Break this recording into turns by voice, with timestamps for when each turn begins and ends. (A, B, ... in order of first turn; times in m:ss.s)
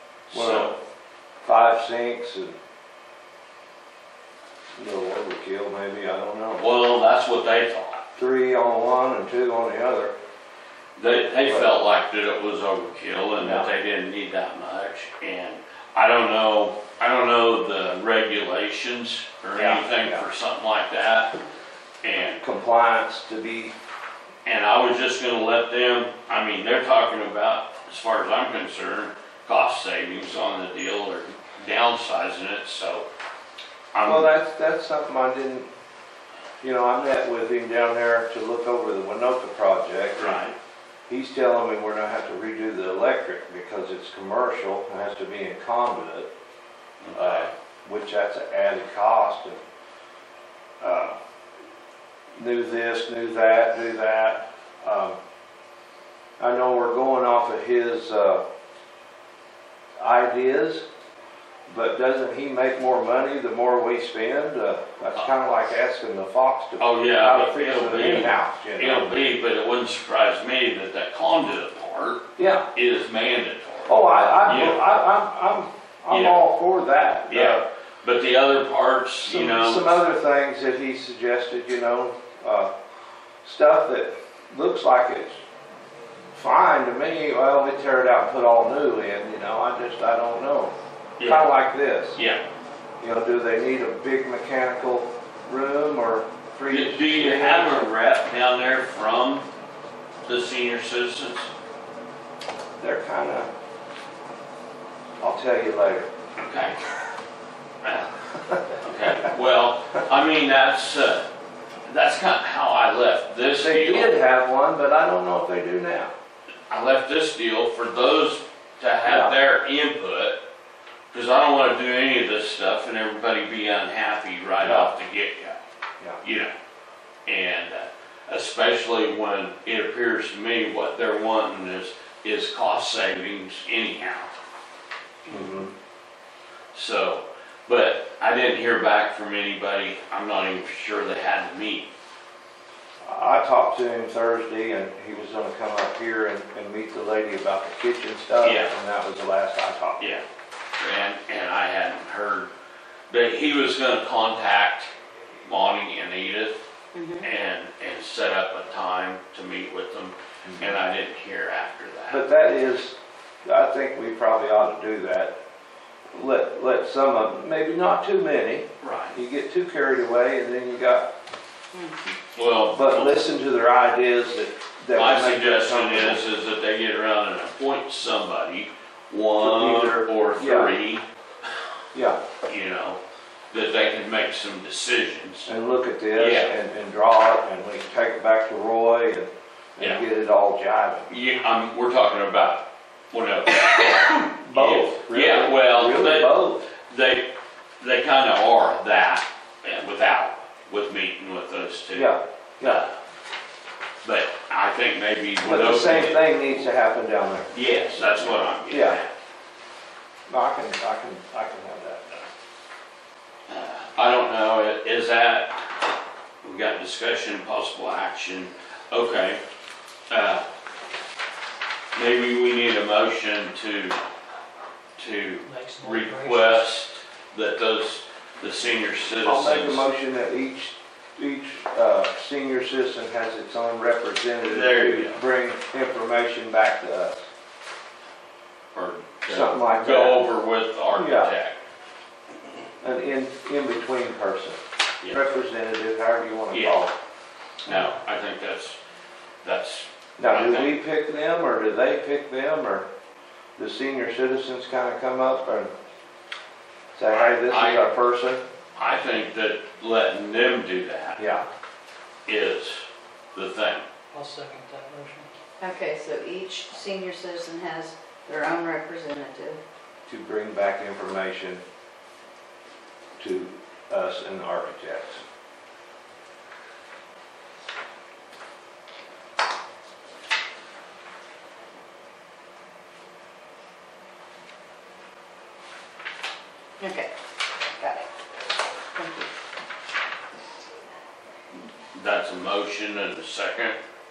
0:00.3-0:00.8 A
0:00.3-0:00.8 B
0:01.5-0:02.6 A
0:04.8-0:06.6 A
0:06.6-0:08.1 B
0:08.2-0:10.1 A
0:11.0-0:21.3 B
0:11.4-0:11.7 A
0:13.4-0:13.7 A
0:19.6-0:20.2 A
0:22.0-0:22.4 B
0:22.4-0:23.7 A
0:24.4-0:33.1 B
0:33.9-0:34.3 B
0:34.0-0:35.7 A
0:36.6-0:40.4 A
0:40.2-0:40.6 B
0:41.1-0:46.3 A
0:47.0-0:47.5 B
0:47.1-0:49.6 A
0:50.8-0:51.2 A
0:52.4-0:55.2 A
0:56.4-0:58.4 A
1:00.0-1:00.8 A
1:01.7-1:09.1 A
1:06.8-1:14.8 B
1:12.4-1:12.7 A
1:13.9-1:17.6 A
1:16.1-1:16.4 B
1:17.3-1:20.0 B
1:19.2-1:22.7 A
1:23.4-1:25.4 A
1:26.3-1:32.2 A
1:31.2-1:31.5 B
1:32.2-1:32.4 B
1:33.0-1:37.8 A
1:36.7-1:39.5 B
1:40.3-1:41.5 B
1:42.8-1:43.5 A
1:45.2-1:46.1 A
1:46.4-1:46.8 B
1:47.8-1:48.1 B
1:48.8-1:51.2 B
1:51.9-1:54.2 B
1:53.6-1:56.1 A
1:56.7-2:00.4 B
1:59.1-1:59.4 A
2:01.1-2:05.6 B
2:04.6-2:04.9 A
2:06.2-2:06.5 B
2:07.3-2:14.3 B
2:15.3-2:15.7 A
2:16.7-2:21.9 B
2:23.0-2:30.1 A
2:28.4-2:28.7 B
2:30.0-2:30.2 B
2:30.8-2:32.5 B
2:33.1-2:34.9 B
2:35.4-2:36.6 B
2:36.9-2:37.3 C
2:37.2-2:42.3 B
2:40.5-2:40.8 A
2:42.1-2:45.4 A
2:46.1-2:51.1 A
2:48.8-2:49.2 B
2:51.7-2:52.2 C
2:52.4-2:53.2 B
2:52.7-2:56.2 A
2:54.9-3:01.1 B
2:59.4-3:00.8 A
3:01.9-3:02.2 A
3:02.5-3:03.0 B
3:03.5-3:05.5 B
3:05.5-3:11.1 A
3:06.2-3:06.6 B
3:11.1-3:23.0 B
3:14.4-3:16.6 A
3:21.9-3:22.8 A
3:24.0-3:26.7 B
3:25.4-3:29.0 A
3:27.5-3:29.1 B
3:30.3-3:32.2 A
3:33.5-3:35.6 B
3:36.4-3:39.4 B
3:40.1-3:40.4 B
3:42.0-3:44.0 B
3:45.0-3:49.9 B
3:45.4-3:46.7 D
3:49.2-3:57.3 A
3:54.4-3:55.2 B
3:58.7-4:01.6 B
3:59.3-4:00.3 A
4:00.9-4:01.3 A
4:02.8-4:04.6 A
4:05.1-4:06.9 A
4:06.5-4:06.8 B
4:07.6-4:08.8 B
4:09.4-4:10.7 B
4:10.2-4:12.9 A
4:13.6-4:15.7 A
4:17.0-4:18.4 A
4:17.1-4:18.0 B
4:18.8-4:21.2 B
4:21.2-4:21.4 A
4:22.3-4:23.9 B
4:24.1-4:25.3 D
4:25.6-4:29.6 C
4:30.1-4:31.6 A
4:33.2-4:35.2 A
4:46.8-4:47.1 C
4:47.7-4:48.1 C
4:49.0-4:49.3 C
4:51.9-4:53.8 B